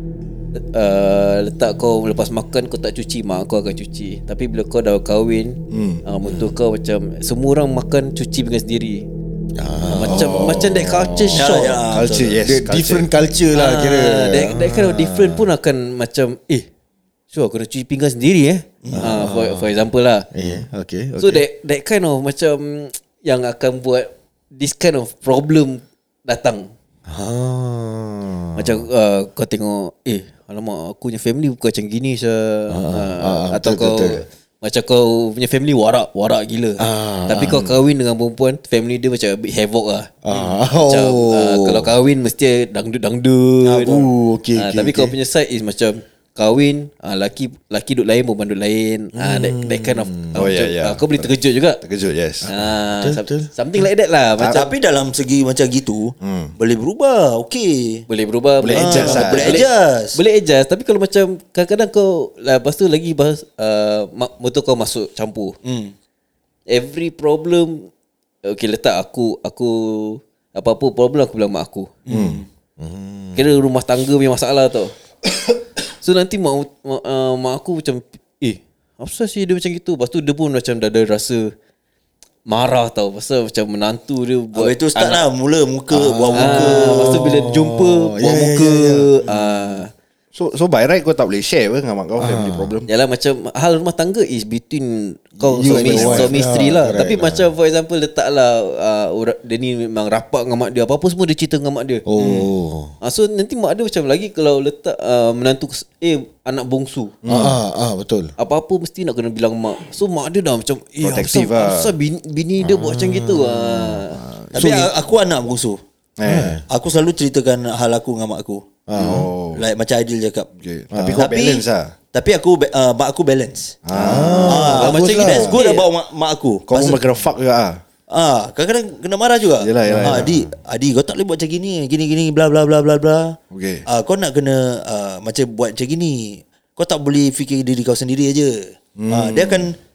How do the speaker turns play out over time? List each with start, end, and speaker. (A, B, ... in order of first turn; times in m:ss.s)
0:00.6-0:09.1 A
0:05.7-0:06.0 B
0:06.2-0:06.5 C
0:09.6-0:11.6 C
0:09.9-0:11.8 A
0:10.0-0:10.8 B
0:11.4-0:12.4 D
0:11.9-0:13.1 B
0:12.4-0:15.4 C
0:13.5-0:16.7 A
0:17.3-0:20.3 A
0:18.8-0:19.1 D
0:18.9-0:19.7 C
0:20.3-0:21.4 C
0:21.2-0:26.7 A
0:27.1-0:28.8 C
0:28.6-0:51.8 A
0:32.7-0:34.2 C
0:36.8-0:37.7 C
0:40.2-0:41.9 C
0:43.6-0:45.1 C
0:49.1-0:50.4 C
0:50.3-0:52.5 B
0:52.4-0:54.7 A
0:52.4-0:53.5 C
0:54.4-0:54.6 B
0:54.5-0:58.1 D
0:56.2-0:56.5 B
0:58.1-1:05.6 A
0:58.6-0:59.6 B
0:58.7-1:00.2 D
1:05.6-1:05.9 D
1:06.7-1:07.9 A
1:08.4-1:12.0 A
1:12.1-1:12.4 D
1:12.1-1:12.4 B
1:12.8-1:13.4 C
1:13.4-1:14.9 A
1:16.0-1:21.5 A
1:22.5-1:25.2 A
1:24.5-1:27.3 D
1:25.9-1:29.2 C
1:26.4-1:29.9 A
1:30.4-1:32.9 B
1:32.2-1:32.7 C
1:32.9-1:42.0 A
1:35.5-1:36.4 B
1:35.5-1:37.5 C
1:42.1-1:42.9 C
1:43.0-1:47.1 A
1:47.2-1:47.6 B
1:47.2-1:48.3 C
1:48.4-1:54.2 A
1:51.0-1:51.9 B
1:52.6-1:54.0 C
1:54.1-1:54.8 B
1:54.5-1:54.9 C
1:54.5-1:55.8 D
1:56.2-1:56.6 B
1:56.2-1:56.6 C
1:56.7-2:00.5 D
1:58.9-1:59.3 C
1:59.0-1:59.6 B
2:00.6-2:01.9 B
2:00.9-2:01.2 C
2:01.1-2:07.0 D
2:03.9-2:04.8 B
2:03.9-2:05.6 C
2:04.7-2:05.9 A
2:06.7-2:07.8 B
2:08.1-2:19.8 D
2:09.6-2:10.4 B
2:09.9-2:10.4 C
2:13.5-2:13.8 B
2:19.0-2:19.7 B